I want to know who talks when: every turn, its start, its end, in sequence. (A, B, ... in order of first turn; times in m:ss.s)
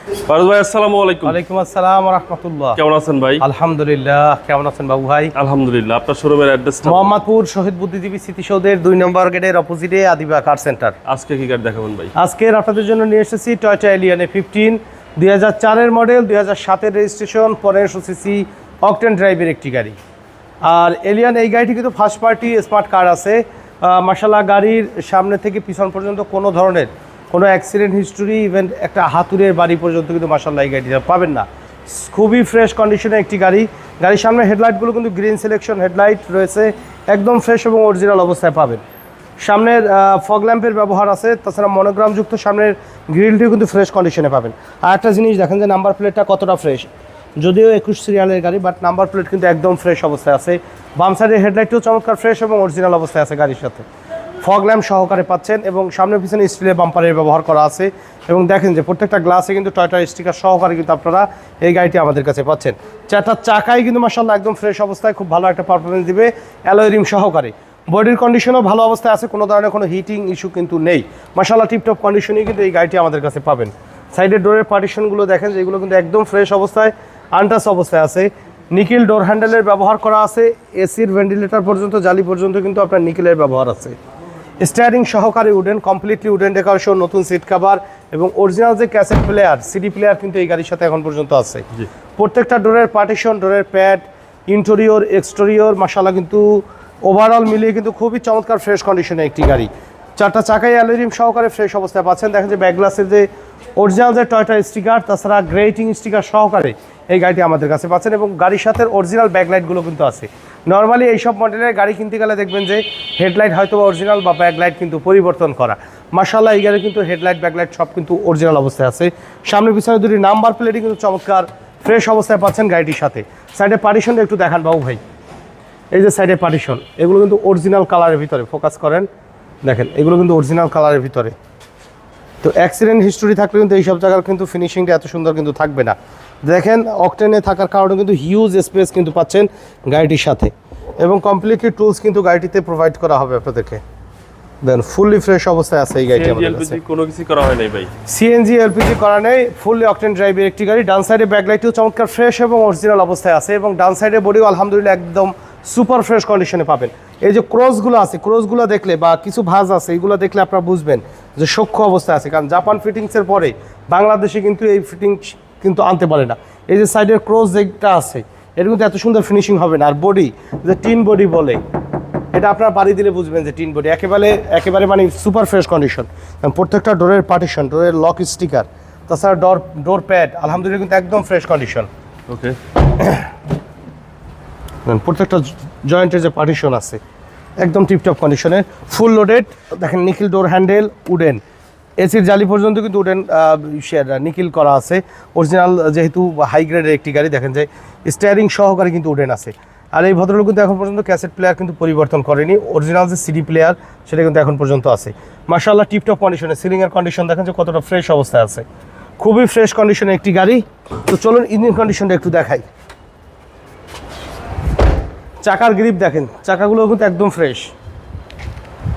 0:00.3-0:01.4 A
0:01.2-0:02.8 B
0:02.8-0:03.4 A
0:03.4-0:05.3 B
0:05.4-0:07.2 A
0:06.9-0:11.0 B
0:11.1-0:12.1 A
0:12.2-0:20.0 B
0:20.6-0:38.8 B
0:39.4-0:53.9 B
0:54.4-1:24.0 B
1:24.6-1:31.7 B
1:32.2-2:05.0 B
2:05.9-2:09.1 B
2:09.6-2:11.3 B
2:12.4-2:23.8 B
2:24.6-2:26.8 B
2:26.1-2:27.9 A
2:28.1-2:51.6 B
2:52.3-3:01.9 B
3:02.3-3:02.6 A
3:03.0-3:03.3 B
3:04.8-3:07.0 B
3:07.6-3:11.4 B
3:12.0-3:28.6 B
3:29.2-3:32.6 B
3:35.4-3:37.7 B